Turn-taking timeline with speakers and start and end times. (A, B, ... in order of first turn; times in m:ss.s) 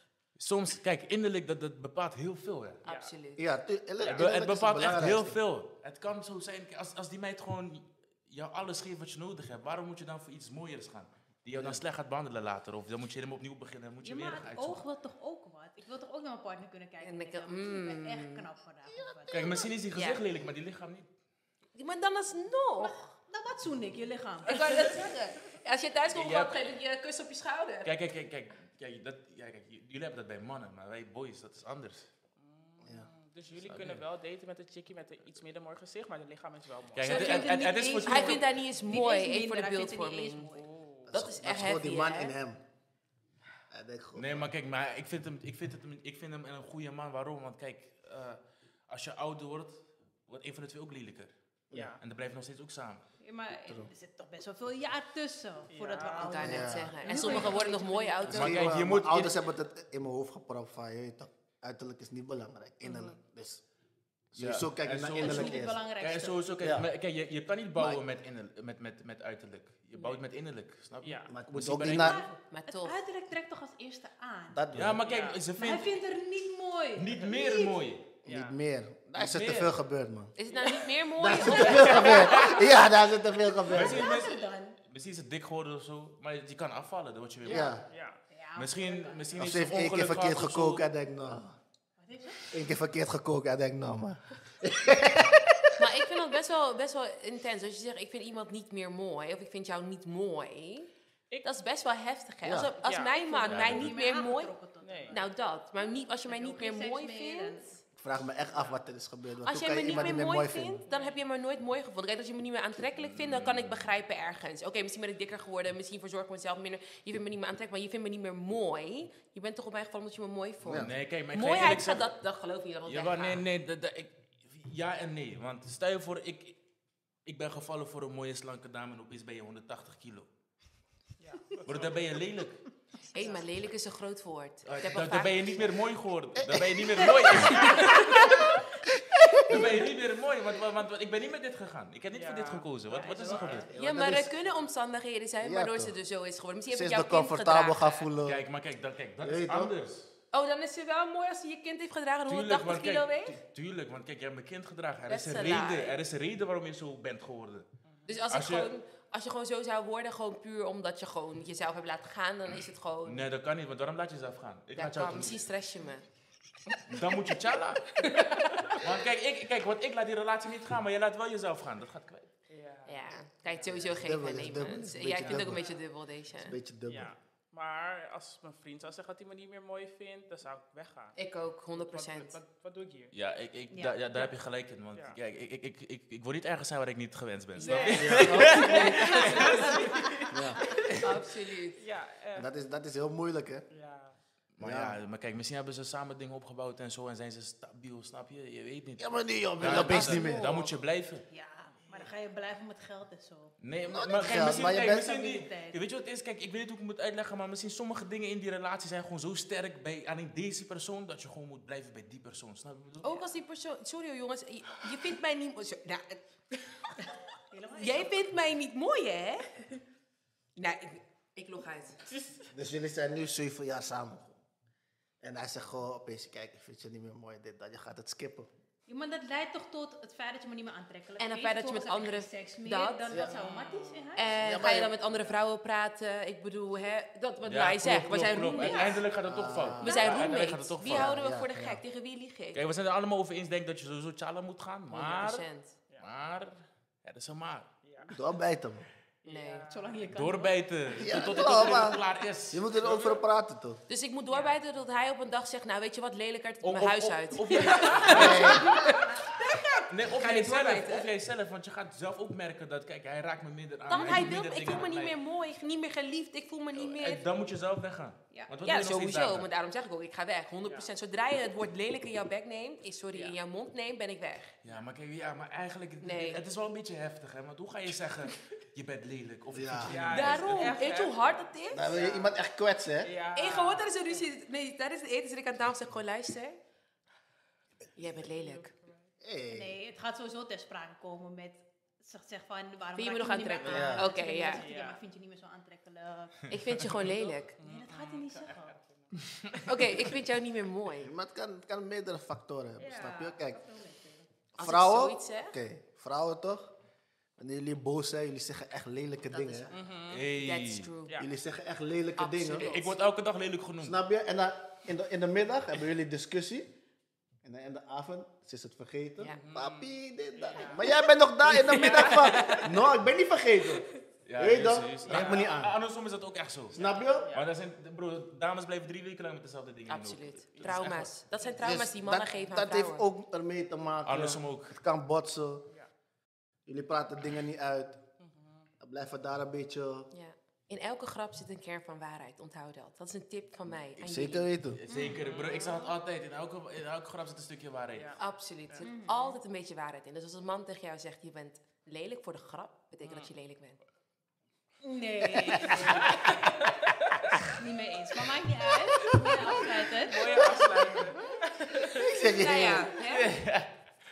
0:00.4-0:02.8 A
0:02.8-0:03.4 B
0:02.8-0:03.1 C
0:03.4-0:05.4 D
0:04.0-0:14.8 A
0:11.5-0:11.8 D
0:14.0-0:19.6 E
0:17.0-0:18.5 B
0:18.9-0:19.4 D
0:19.3-0:21.1 A
0:19.9-0:20.2 B
0:21.8-0:23.2 B
0:22.8-0:25.1 E
0:24.5-0:27.9 B
0:26.1-0:26.8 A
0:27.8-0:32.1 A
0:32.4-0:37.5 C
0:33.6-0:34.0 A
0:36.9-0:38.5 A
0:37.0-0:40.5 B
0:37.1-0:40.7 E
0:40.6-0:41.2 C
0:41.1-0:42.6 D
0:41.1-0:42.4 B
0:43.7-0:44.5 D
0:44.2-0:51.3 A
0:51.7-0:52.0 C
0:52.0-0:53.1 A
0:53.2-0:58.3 E
0:55.7-0:56.4 C
0:56.2-0:58.7 B
0:56.4-0:57.5 D
0:57.1-0:57.5 C
0:58.3-0:59.4 A
0:58.3-1:03.6 D
1:02.8-1:03.2 C
1:04.3-1:12.3 A
1:04.4-1:05.8 D
1:05.1-1:06.5 E
1:06.6-1:06.9 D
1:10.0-1:10.2 C
1:11.0-1:11.3 C
1:11.3-1:12.2 D
1:11.8-1:14.7 E
1:12.5-1:13.0 B
1:14.5-1:15.0 D
1:14.7-1:15.9 A
1:15.0-1:15.5 C
1:15.5-1:17.8 E
1:17.0-1:18.1 A
1:18.2-1:18.6 C
1:18.2-1:20.3 D
1:19.2-1:19.7 A
1:20.4-1:22.5 B
1:21.2-1:24.2 D
1:21.4-1:22.8 A
1:23.7-1:27.8 A
1:23.7-1:24.8 E
1:27.5-1:27.8 D
1:27.6-1:28.2 C
1:28.3-1:29.3 E
1:28.6-1:30.9 A
1:29.4-1:31.6 D
1:32.0-1:32.6 E
1:32.5-1:35.8 D
1:35.8-1:40.9 B
1:41.4-1:44.6 B
1:42.4-1:42.7 D
1:42.8-1:43.2 C
1:43.1-1:45.2 E
1:43.5-1:44.0 A
1:44.8-1:45.2 C
1:45.1-1:47.7 B
1:46.2-1:47.8 E
1:48.0-1:50.8 D
1:48.5-1:48.8 C
1:49.4-2:03.4 B
1:50.9-1:51.2 C
1:53.0-1:54.0 A
2:00.6-2:00.9 D
2:00.7-2:02.1 A
2:02.9-2:06.6 A
2:07.3-2:10.3 A
2:11.2-2:12.1 C
2:11.7-2:12.6 A
2:13.1-2:15.7 B
2:14.6-2:18.2 A
2:16.4-2:17.4 D
2:17.6-2:18.1 B
2:18.2-2:19.8 D
2:19.5-2:23.7 A
2:22.1-2:23.7 C
2:23.0-2:23.7 E
2:23.7-2:24.3 D
2:23.8-2:28.1 B
2:25.4-2:25.9 D
2:26.7-2:28.4 D
2:28.2-2:30.1 A
2:29.2-2:29.7 D
2:30.3-2:33.4 B
2:32.3-2:37.7 A
2:35.1-2:36.0 B
2:37.9-2:38.2 C
2:38.1-2:43.3 B
2:38.3-2:38.7 A
2:43.0-2:45.4 A
2:44.7-2:46.0 B
2:46.9-2:48.0 A
2:48.0-2:48.8 B
2:48.7-2:52.3 A
2:52.5-2:53.9 C
2:52.9-2:56.6 B
2:53.6-2:55.8 D
2:55.0-2:55.7 C
2:56.4-2:57.1 D
2:56.9-3:01.2 C
3:01.2-3:02.4 B
3:01.8-3:03.1 C
3:03.1-3:09.7 A
3:03.7-3:04.3 E
3:07.6-3:09.8 B
3:07.6-3:08.0 C
3:07.6-3:08.5 E
3:08.0-3:09.0 D
3:08.8-3:11.0 C
3:09.8-3:10.0 E
3:10.3-3:10.6 D
3:10.8-3:11.8 B
3:11.8-3:12.5 C
3:12.4-3:13.6 D
3:13.7-3:14.2 C
3:14.6-3:21.2 A
3:14.6-3:15.0 D
3:19.0-3:20.6 D
3:19.7-3:20.7 B
3:21.3-3:23.5 E
3:23.6-3:33.3 A
3:23.9-3:25.3 D
3:24.1-3:25.8 E
3:33.0-3:37.0 B
3:37.5-3:38.3 E
3:37.8-3:39.4 B
3:40.6-3:42.0 B
3:42.1-3:42.5 C
3:42.5-3:44.4 D
3:45.2-3:48.5 D
3:48.9-3:54.4 E
3:51.2-3:53.3 B
3:53.2-3:54.3 C
3:54.2-3:59.0 B
3:54.4-3:55.0 D
3:57.5-4:01.2 A
3:59.2-4:01.8 D
3:59.8-4:02.6 B
4:02.5-4:05.5 A
4:04.9-4:05.7 B
4:06.0-4:07.7 A
4:07.8-4:08.2 C
4:08.1-4:08.8 D
4:09.2-4:10.1 C
4:09.2-4:09.7 B
4:09.7-4:10.6 E
4:10.1-4:13.2 A
4:11.0-4:13.8 D
4:13.9-4:21.1 B
4:14.3-4:14.6 C
4:16.6-4:18.9 A
4:17.5-4:19.7 E
4:18.1-4:19.0 D
4:19.9-4:25.1 A
4:23.9-4:27.3 B
4:26.7-4:29.5 A
4:28.6-4:34.6 B
4:34.6-4:40.8 A
4:36.0-4:36.4 B
4:39.5-4:40.0 D
4:39.9-4:42.4 C
4:40.1-4:42.1 B
4:41.7-4:43.1 D
4:43.0-4:44.3 C
4:43.4-4:46.6 B
4:48.0-4:48.7 B
4:48.2-4:49.0 C
4:49.2-4:49.8 D
4:49.5-4:57.0 E
4:53.0-4:54.7 B
4:53.7-4:54.1 D
4:54.6-4:55.0 C
4:56.5-4:57.6 B
4:57.0-5:00.2 C
4:57.6-4:58.8 E
4:59.6-5:01.1 B
5:01.0-5:03.6 D
5:02.8-5:03.6 C
5:02.9-5:04.2 E
5:04.6-5:06.8 D
5:04.6-5:05.6 B
5:07.4-5:09.7 D
5:09.4-5:09.7 B
5:09.7-5:10.2 C
5:10.1-5:10.9 A
5:10.3-5:11.2 B
5:11.2-5:12.7 D
5:12.2-5:13.0 B
5:12.5-5:14.0 A
5:13.8-5:16.7 D
5:17.4-5:25.8 D
5:19.3-5:22.8 C
5:22.1-5:22.6 B
5:24.3-5:26.8 A
5:25.0-5:25.5 C
5:26.7-5:27.3 D
5:26.7-5:27.5 C
5:27.3-5:31.1 A
5:29.9-5:33.1 B
5:30.6-5:31.6 C
5:31.6-5:35.7 D
5:34.1-5:34.8 A
5:36.7-5:38.0 D
5:38.2-5:38.7 C
5:38.8-5:40.1 D
5:40.1-5:44.5 B
5:44.0-5:44.8 D
5:44.6-5:48.1 A
5:44.9-5:45.7 E
5:45.2-5:45.9 C
5:47.9-5:48.9 C
5:48.2-5:53.8 B
5:48.8-5:49.4 E
5:53.0-5:53.3 C
5:54.8-5:56.7 E
5:56.8-5:57.4 C
5:57.4-6:01.1 E
6:00.0-6:02.2 C
6:01.9-6:03.0 D
6:02.1-6:03.3 B
6:02.5-6:03.4 E
6:03.0-6:03.7 A